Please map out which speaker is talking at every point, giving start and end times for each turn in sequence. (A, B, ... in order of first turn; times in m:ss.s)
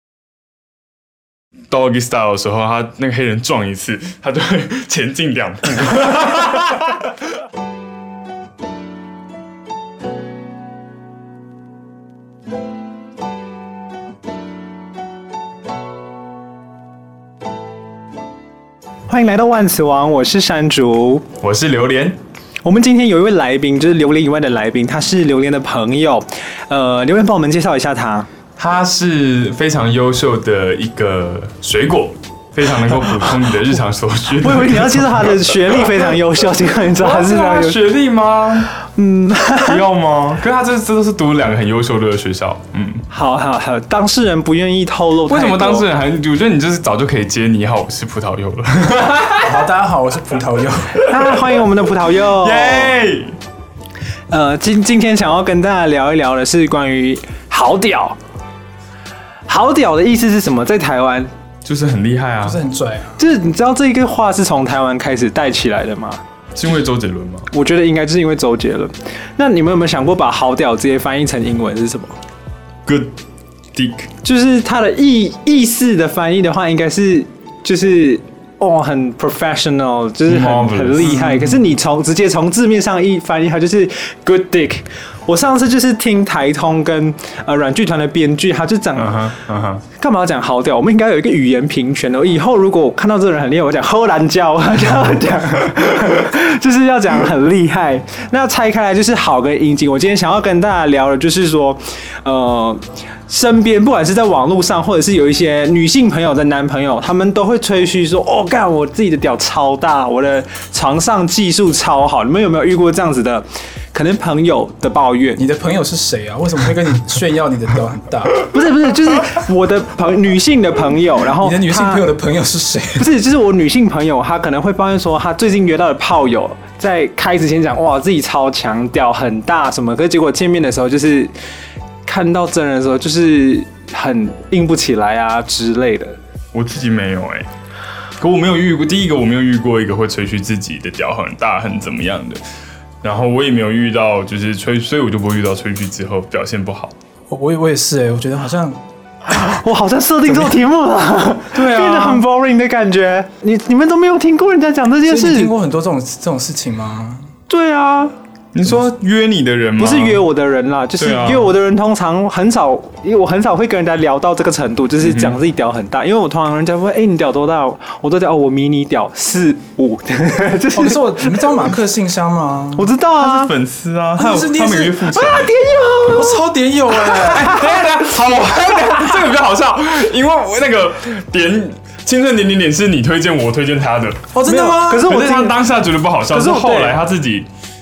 0:01.7-0:06.9 A
0:19.1-0:21.2 B
0:21.4-0:22.2 A
0:22.6-0:28.3 B
0:28.6-0:35.4 A
0:34.4-0:37.8 B
0:37.0-0:38.7 A
0:38.8-0:39.8 B
0:39.6-0:43.0 A
0:43.1-0:45.9 B
0:45.3-0:49.6 A
0:49.4-0:51.0 C
0:51.0-0:52.9 B
0:52.1-0:53.4 A
0:54.3-0:58.2 B
0:59.5-1:01.3 B
1:01.6-1:02.6 A
1:02.4-1:03.2 C
1:03.2-1:06.2 B
1:06.5-1:07.5 A
1:07.5-1:12.2 B
1:12.8-1:13.1 A
1:13.7-1:14.1 A
1:14.2-1:29.4 B
1:20.3-1:21.6 A
1:29.0-1:29.8 A
1:29.9-1:55.4 B
1:55.4-1:58.4 C
1:58.5-2:02.0 B
2:01.4-2:03.1 C
2:03.0-2:11.3 B
2:12.0-2:16.2 B
2:16.5-2:17.5 A
2:18.2-2:22.4 A
2:23.0-2:26.9 A
2:27.3-2:28.8 C
2:29.3-2:35.5 B
2:31.5-2:32.2 C
2:35.0-2:37.3 C
2:37.5-2:38.1 B
2:38.5-2:40.2 A
2:39.8-2:51.6 B
2:41.0-2:41.5 A
2:45.0-2:45.3 A
2:50.7-2:52.9 C
2:52.8-2:53.5 B
2:53.2-2:55.5 A
2:54.2-2:55.1 C
2:55.1-2:56.4 B
2:56.0-2:57.6 C
2:57.0-2:58.0 B
2:57.3-3:04.3 A
3:04.3-3:05.2 C
3:04.4-3:05.6 B
3:04.9-3:07.5 A
3:06.3-3:07.0 B